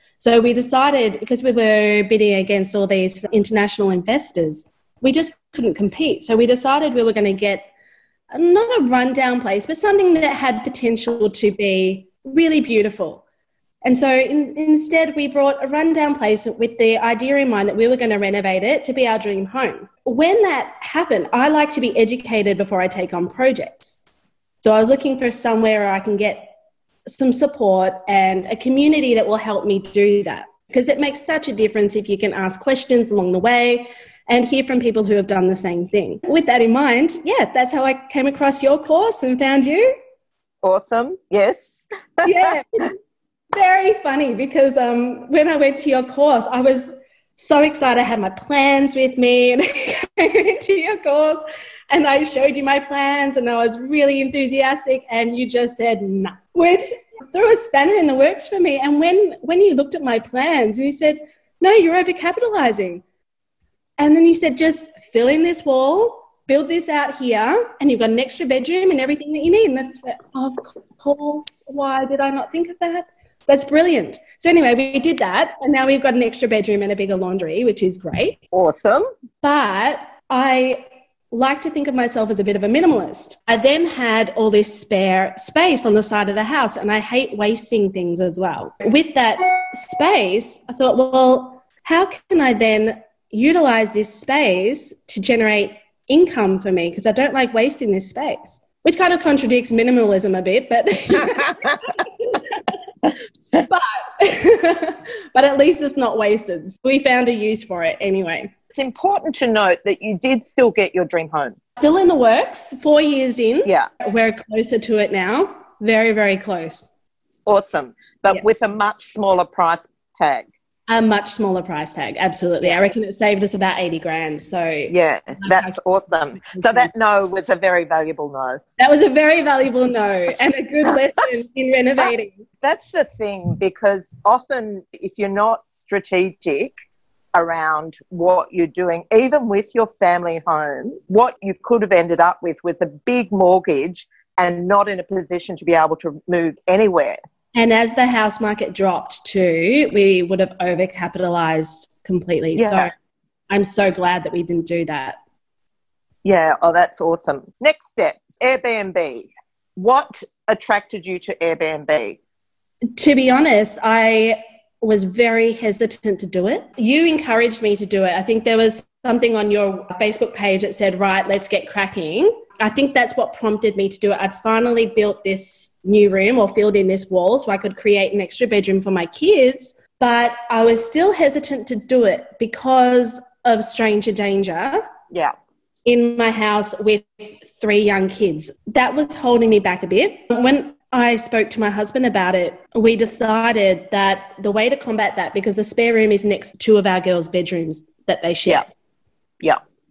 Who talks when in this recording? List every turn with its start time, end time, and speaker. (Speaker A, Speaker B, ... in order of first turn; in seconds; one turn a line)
Speaker A: 0.2-7.7
Speaker A: 8.3-13.2
Speaker A: 13.8-24.0
Speaker A: 24.6-26.5
Speaker A: 27.1-39.9
Speaker B: 40.6-42.5
Speaker A: 42.2-43.0
Speaker A: 43.5-63.0
Speaker A: 64.0-78.4
Speaker B: 78.5-79.1
Speaker A: 79.4-102.7
Speaker A: 103.5-108.5
Speaker B: 108.7-111.6
Speaker A: 111.8-116.9
Speaker B: 117.5-120.5
Speaker A: 120.9-126.9
Speaker B: 124.9-128.6
Speaker A: 128.8-132.4
Speaker B: 132.6-136.7
Speaker B: 137.3-147.2
Speaker A: 147.5-152.9
Speaker B: 152.6-152.9
Speaker A: 153.5-155.2
Speaker B: 156.2-162.2
Speaker A: 162.9-184.9
Speaker A: 185.8-198.6